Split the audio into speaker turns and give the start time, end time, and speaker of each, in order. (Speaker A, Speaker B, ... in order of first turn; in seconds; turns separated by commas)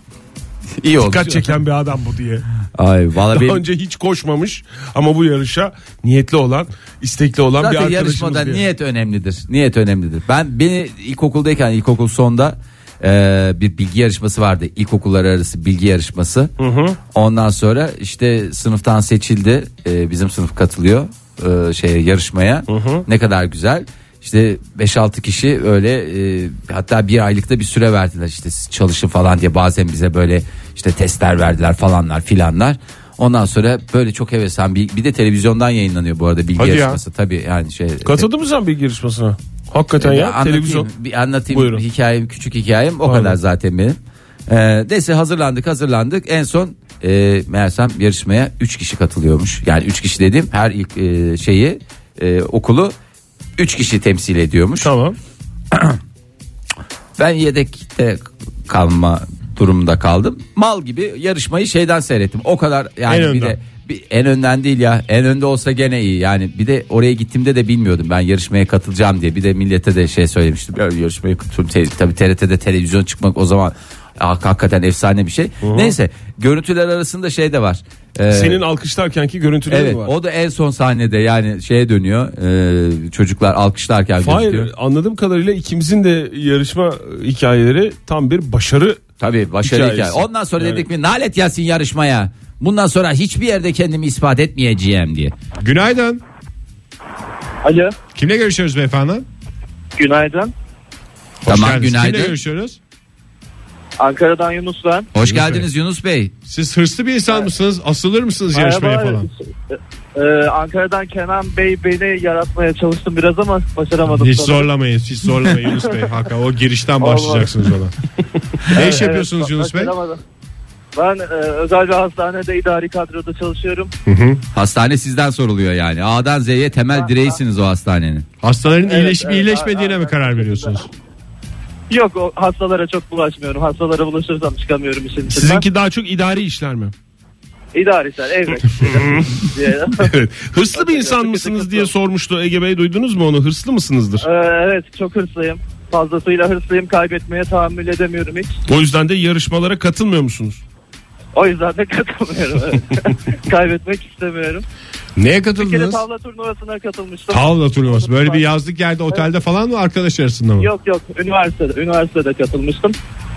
Speaker A: 0.8-1.5, Speaker B: 1.0-2.5, Speaker A: 2.8-3.6, Speaker B: 3.3-8.6, Speaker A: 7.6-16.5, Speaker B: 16.6-17.0, Speaker A: 17.1-38.3, Speaker B: 22.7-23.1, Speaker C: 36.6-37.0, Speaker B: 38.0-40.9, Speaker A: 40.0-52.9, Speaker B: 41.5-41.8, Speaker B: 43.0-43.4, Speaker A: 53.6-54.9, Speaker B: 54.8-55.1, Speaker A: 55.7-56.0, Speaker A: 57.2-78.6, Speaker C: 63.1-63.6, Speaker B: 75.6-76.0, Speaker B: 78.3-80.1, Speaker A: 79.7-84.7, Speaker B: 84.2-89.0, Speaker A: 89.2-95.3, Speaker B: 89.6-90.9, Speaker C: 95.6-96.2, Speaker D: 97.6-98.0, Speaker C: 98.1-99.3, Speaker D: 100.0-100.5, Speaker C: 101.4-102.8, Speaker A: 101.5-102.4, Speaker D: 104.0-105.1, Speaker A: 105.1-106.3, Speaker C: 105.2-105.7, Speaker C: 106.5-109.3, Speaker D: 108.5-114.7, Speaker C: 114.1-118.0, Speaker D: 117.0-117.5, Speaker C: 118.7-119.9, Speaker D: 118.7-120.2, Speaker D: 121.0-123.9, Speaker C: 124.1-124.4, Speaker A: 124.5-128.2, Speaker D: 127.0-127.4, Speaker C: 128.4-130.9, Speaker D: 128.8-130.8, Speaker D: 131.9-135.7, Speaker B: 135.3-136.9, Speaker D: 137.7-140.1, Speaker B: 138.8-139.4, Speaker B: 140.0-144.3, Speaker D: 140.8-141.9, Speaker D: 144.2-148.6, Speaker B: 148.7-150.6, Speaker D: 151.3-154.6, Speaker C: 155.2-156.0, Speaker D: 155.6-158.4, Speaker C: 157.3-160.7, Speaker D: 160.6-163.0